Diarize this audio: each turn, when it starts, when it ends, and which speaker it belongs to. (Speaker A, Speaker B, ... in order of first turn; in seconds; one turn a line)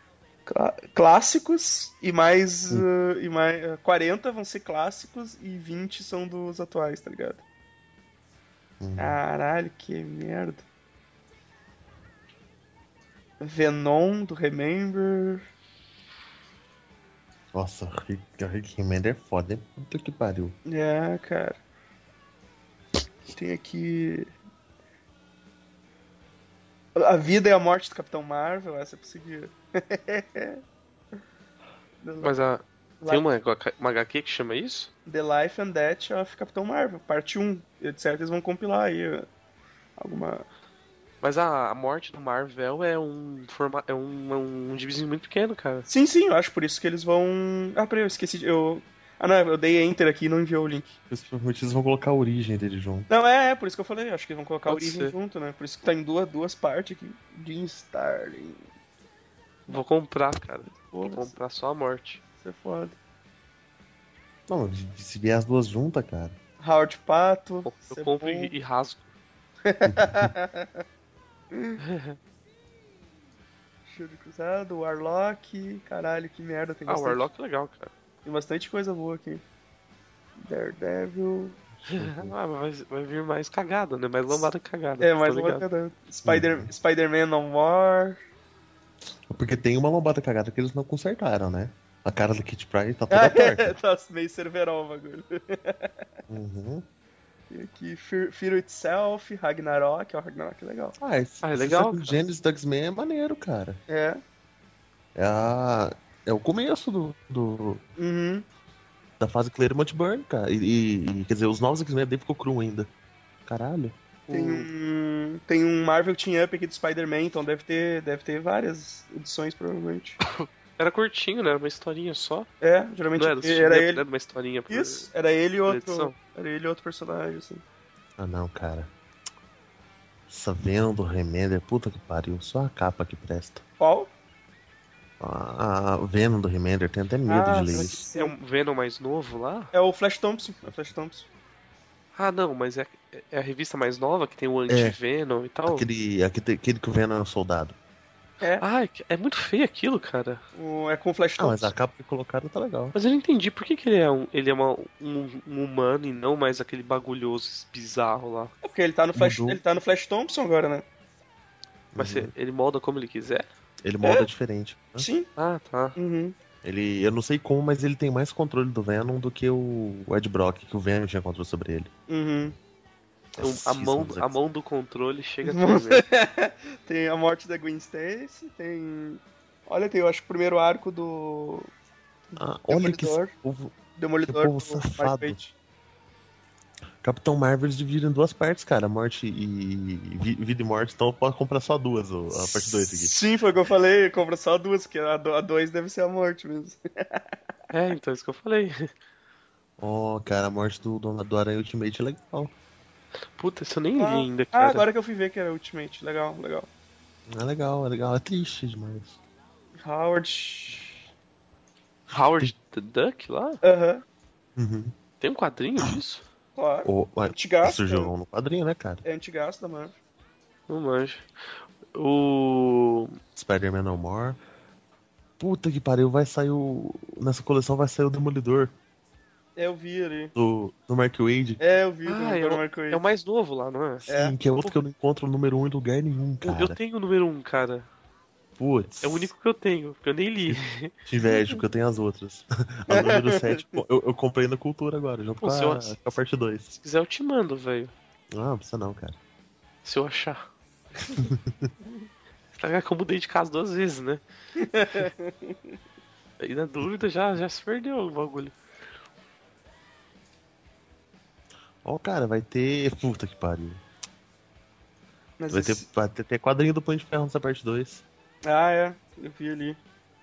Speaker A: 0.5-7.4
Speaker B: 8.8-9.2
Speaker A: 8.9-10.6
Speaker A: 13.4-15.4
Speaker B: 17.5-20.6
Speaker A: 20.6-21.6
Speaker A: 23.3-24.3
Speaker A: 26.9-30.6
Speaker A: 32.0-32.4
Speaker C: 32.2-34.9
Speaker A: 33.0-33.2
Speaker A: 35.0-39.3
Speaker A: 40.0-40.5
Speaker C: 41.2-45.9
Speaker A: 45.9-51.0
Speaker B: 51.1-53.1
Speaker A: 53.1-58.6
Speaker C: 54.7-55.1
Speaker C: 59.7-62.2
Speaker A: 60.7-61.4
Speaker A: 62.4-63.0
Speaker B: 64.5-66.3
Speaker A: 66.6-68.5
Speaker C: 67.6-69.1
Speaker A: 69.7-70.8
Speaker A: 71.5-71.8
Speaker C: 71.8-72.2
Speaker A: 73.9-77.3
Speaker C: 76.9-77.9
Speaker A: 78.2-79.4
Speaker A: 80.4-81.6
Speaker B: 81.8-82.3
Speaker C: 81.9-85.7
Speaker A: 85.0-88.2
Speaker B: 86.2-86.7
Speaker B: 89.3-93.7
Speaker A: 93.1-95.9
Speaker B: 96.3-96.8
Speaker A: 97.5-101.0
Speaker B: 101.0-103.8
Speaker C: 101.4-102.2
Speaker A: 103.9-104.2
Speaker B: 105.1-107.8
Speaker A: 108.0-108.5
Speaker B: 109.2-112.9
Speaker B: 113.5-114.0
Speaker C: 114.3-114.7
Speaker A: 114.3-120.2
Speaker C: 120.3-122.5
Speaker A: 122.6-124.0
Speaker C: 123.2-125.1
Speaker A: 124.7-127.6
Speaker C: 125.6-126.1
Speaker B: 128.2-128.9
Speaker B: 130.3-133.6
Speaker A: 133.8-134.1
Speaker B: 135.2-138.0
Speaker A: 137.3-138.3
Speaker C: 137.7-139.7
Speaker A: 139.7-141.3
Speaker C: 142.1-145.8
Speaker B: 144.7-145.0
Speaker B: 145.6-147.8
Speaker C: 148.6-150.4
Speaker A: 150.5-151.7
Speaker B: 151.4-152.9
Speaker C: 152.9-158.5
Speaker A: 158.6-160.8
Speaker B: 159.1-159.6
Speaker B: 161.9-162.3
Speaker C: 161.9-163.5
Speaker B: 163.8-165.1
Speaker A: 165.0-165.3
Speaker C: 165.3-166.0
Speaker A: 165.9-166.3
Speaker B: 166.6-171.9
Speaker A: 172.1-172.5
Speaker B: 173.4-174.4
Speaker C: 173.4-176.0
Speaker A: 175.4-181.7
Speaker A: 182.3-183.3
Speaker B: 182.4-183.7
Speaker A: 184.0-185.5
Speaker B: 184.2-185.4
Speaker B: 187.0-193.2
Speaker A: 192.3-197.2
Speaker C: 197.7-198.9
Speaker B: 199.8-202.5
Speaker C: 203.4-204.9
Speaker A: 203.9-206.7
Speaker B: 207.3-209.2
Speaker A: 209.8-211.0
Speaker C: 212.1-213.6
Speaker A: 213.6-214.0
Speaker B: 214.6-214.9
Speaker C: 215.2-216.2
Speaker A: 216.6-218.1
Speaker B: 216.8-219.0
Speaker A: 219.0-219.9
Speaker C: 220.7-221.3
Speaker C: 221.9-223.1
Speaker B: 223.3-224.4
Speaker B: 225.4-228.7
Speaker A: 229.6-230.3
Speaker B: 230.3-231.6
Speaker A: 231.6-233.0
Speaker C: 232.0-234.1
Speaker B: 234.1-236.8
Speaker A: 234.1-234.3
Speaker C: 236.4-237.9
Speaker B: 238.6-239.3
Speaker C: 239.0-240.9
Speaker B: 240.5-246.7
Speaker A: 242.9-243.8
Speaker C: 245.4-245.9
Speaker C: 246.8-247.9
Speaker B: 248.3-249.2
Speaker C: 249.8-250.4
Speaker C: 252.5-254.2
Speaker A: 254.6-255.7
Speaker C: 256.4-258.5
Speaker B: 261.8-263.8
Speaker A: 265.4-265.9
Speaker B: 265.5-268.0
Speaker A: 268.4-269.8